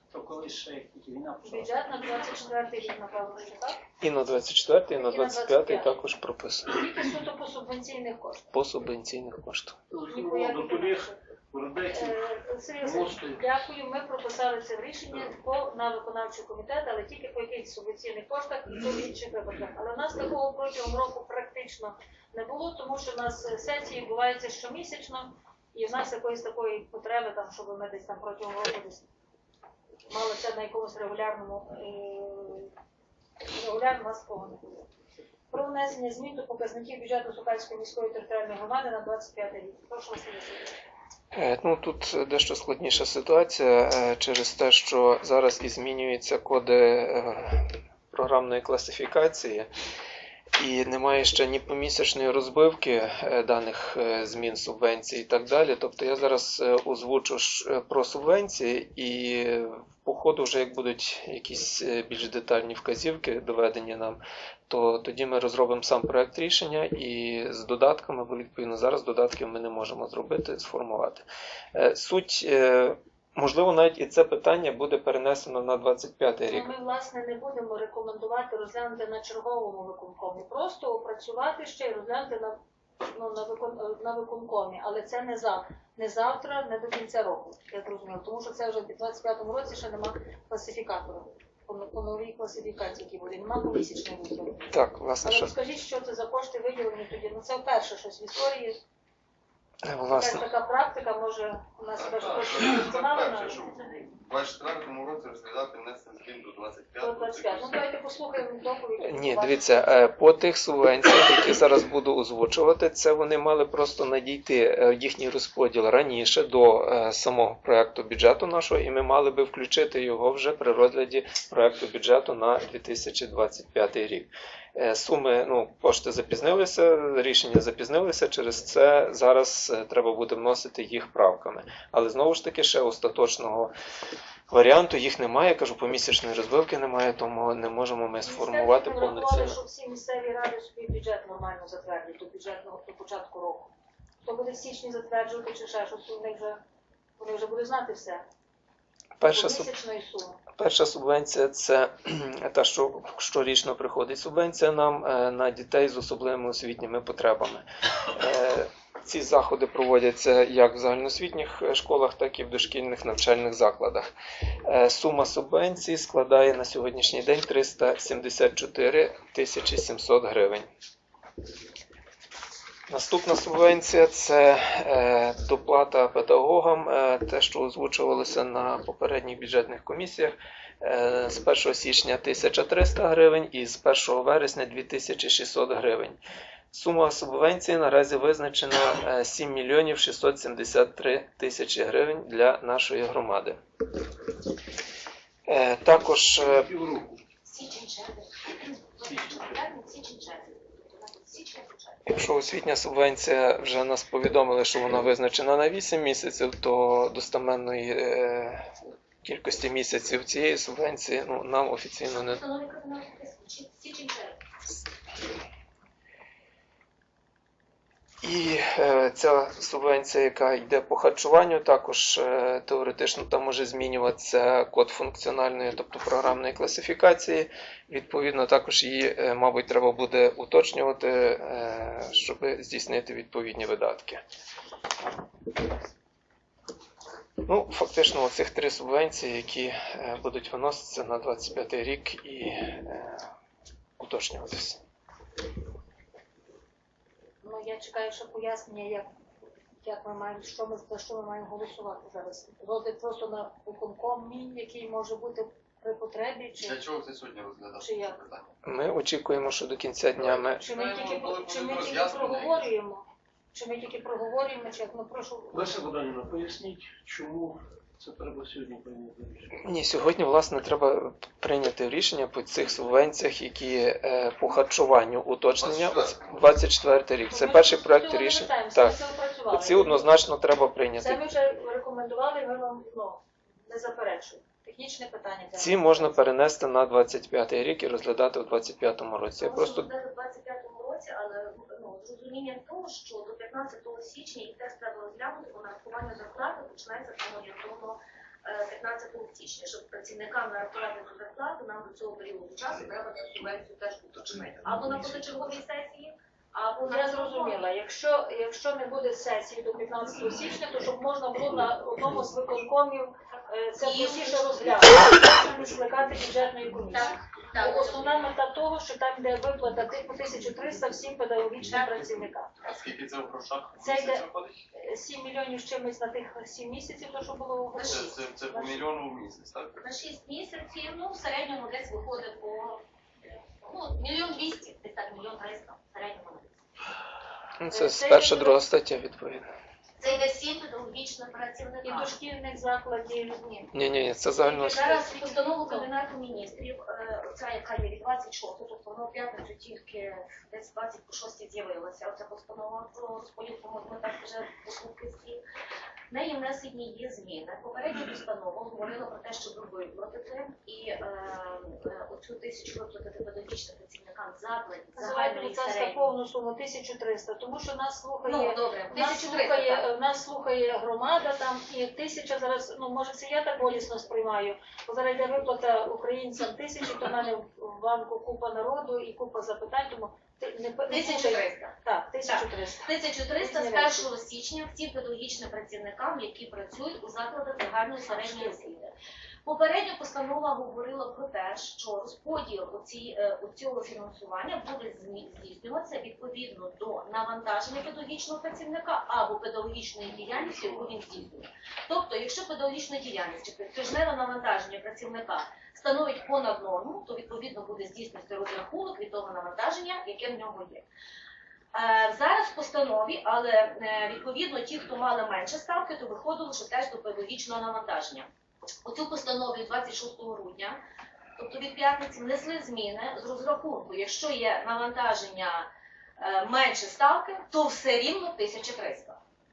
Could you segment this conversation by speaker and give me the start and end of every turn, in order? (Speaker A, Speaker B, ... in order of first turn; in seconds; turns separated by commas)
Speaker A: 0.1-2.1, Speaker B: 1.4-3.8, Speaker C: 4.0-6.8, Speaker B: 4.9-5.9, Speaker B: 6.7-8.5, Speaker C: 8.5-9.8, Speaker D: 9.9-12.1, Speaker B: 10.1-11.2, Speaker B: 11.9-29.1, Speaker D: 12.8-13.4, Speaker B: 30.1-32.7, Speaker B: 33.5-34.8, Speaker B: 35.5-40.7, Speaker C: 41.3-49.7, Speaker C: 50.6-76.7, Speaker B: 76.5-82.6, Speaker B: 83.1-94.7, Speaker C: 94.7-95.5, Speaker B: 95.2-98.8, Speaker C: 99.8-100.5, Speaker B: 100.1-103.6, Speaker E: 102.0-107.9, Speaker B: 107.0-109.8, Speaker C: 109.0-133.7, Speaker C: 134.5-139.6, Speaker B: 138.2-143.7, Speaker B: 144.2-146.6, Speaker B: 147.2-148.2, Speaker C: 149.2-149.7, Speaker B: 149.3-150.4, Speaker C: 150.6-164.1, Speaker C: 164.6-170.7, Speaker C: 172.9-186.2, Speaker C: 186.7-193.6, Speaker C: 195.5-196.7, Speaker D: 196.5-197.2, Speaker F: 197.4-202.1, Speaker C: 202.1-208.7, Speaker C: 209.2-212.4, Speaker F: 212.1-214.4, Speaker C: 218.2-234.2, Speaker C: 237.4-243.2, Speaker C: 244.0-244.8, Speaker B: 247.4-249.1, Speaker B: 249.8-256.8, Speaker E: 256.6-258.5, Speaker B: 257.8-258.2, Speaker C: 258.6-260.6, Speaker E: 260.2-262.7, Speaker B: 260.6-265.7, Speaker D: 265.5-269.5, Speaker C: 269.6-281.2, Speaker E: 275.6-276.4, Speaker B: 277.3-280.1, Speaker B: 281.0-286.2, Speaker C: 285.5-289.9, Speaker F: 289.4-307.7, Speaker B: 306.8-322.5, Speaker F: 313.8-315.0, Speaker F: 316.9-318.2, Speaker F: 321.7-322.1, Speaker E: 322.6-324.5, Speaker B: 323.8-328.8, Speaker F: 327.7-328.2, Speaker E: 327.9-329.9, Speaker F: 329.8-332.8, Speaker F: 333.6-336.6, Speaker C: 337.6-339.5, Speaker B: 337.7-338.7, Speaker F: 340.0-342.1, Speaker B: 341.8-343.7, Speaker C: 343.7-344.9, Speaker F: 344.4-355.4, Speaker B: 344.4-345.9, Speaker F: 356.1-366.1, Speaker B: 364.9-384.1, Speaker F: 368.2-369.8, Speaker F: 380.9-388.9, Speaker B: 388.1-388.5, Speaker F: 389.4-410.8, Speaker F: 411.7-418.3, Speaker F: 418.8-420.8, Speaker F: 421.4-429.2